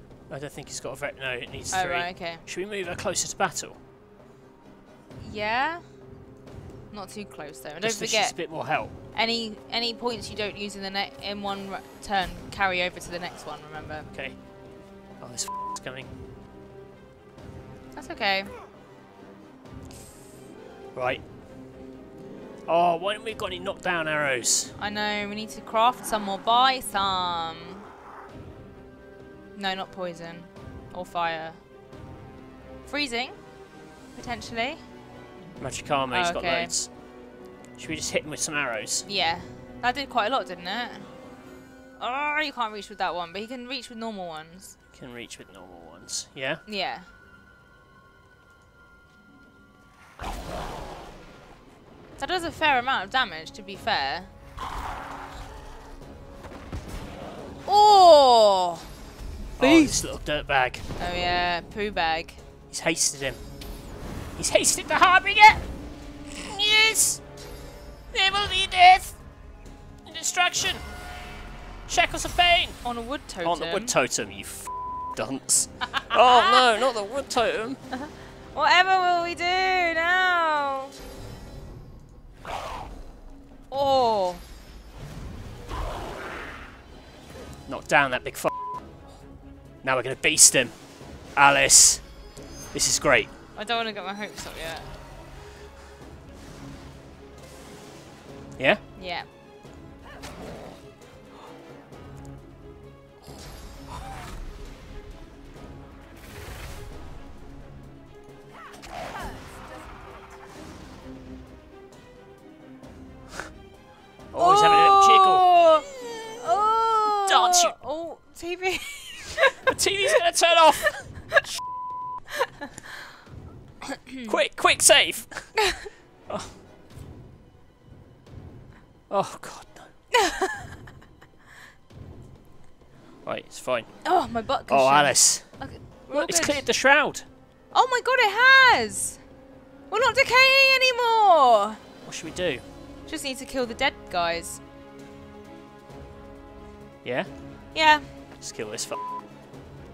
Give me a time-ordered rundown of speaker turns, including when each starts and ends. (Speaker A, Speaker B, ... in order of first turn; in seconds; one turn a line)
Speaker A: 0.3-3.8
Speaker B: 1.7-2.5
Speaker B: 5.2-5.9
Speaker B: 6.9-14.1
Speaker A: 7.8-8.9
Speaker A: 14.1-14.5
Speaker A: 15.2-16.1
Speaker B: 17.9-18.5
Speaker A: 20.9-21.2
Speaker A: 22.7-24.8
Speaker B: 24.8-27.8
Speaker B: 29.6-31.6
Speaker B: 32.9-33.4
Speaker B: 34.1-34.8
Speaker A: 35.6-37.0
Speaker B: 36.1-36.7
Speaker A: 37.8-39.1
Speaker B: 39.0-41.1
Speaker B: 42.0-44.8
Speaker A: 44.9-46.6
Speaker B: 46.7-47.1
Speaker B: 52.2-54.3
Speaker B: 57.7-58.9
Speaker B: 59.6-60.0
Speaker A: 59.6-60.9
Speaker B: 61.0-62.4
Speaker A: 62.7-63.4
Speaker A: 64.4-65.7
Speaker A: 66.4-67.2
Speaker A: 68.1-69.2
Speaker A: 70.1-70.8
Speaker A: 71.9-72.8
Speaker B: 72.8-74.0
Speaker A: 73.4-77.8
Speaker B: 76.3-76.6
Speaker B: 78.0-80.9
Speaker B: 83.7-84.4
Speaker A: 87.7-88.5
Speaker A: 89.8-92.1
Speaker A: 92.7-93.3
Speaker B: 93.5-94.9
Speaker B: 99.0-99.3
Speaker A: 114.3-115.5
Speaker B: 114.4-115.9
Speaker B: 116.4-119.6
Speaker A: 117.3-117.8
Speaker A: 119.7-121.4
Speaker A: 124.2-126.5
Speaker A: 129.1-129.9
Speaker B: 130.2-130.6
Speaker A: 133.2-137.3
Speaker B: 134.1-136.7
Speaker B: 137.7-139.2
Speaker B: 139.9-141.8
Speaker A: 142.0-142.6
Speaker B: 143.1-144.6
Speaker A: 147.0-147.3
Speaker B: 147.7-148.1
Speaker A: 148.4-149.0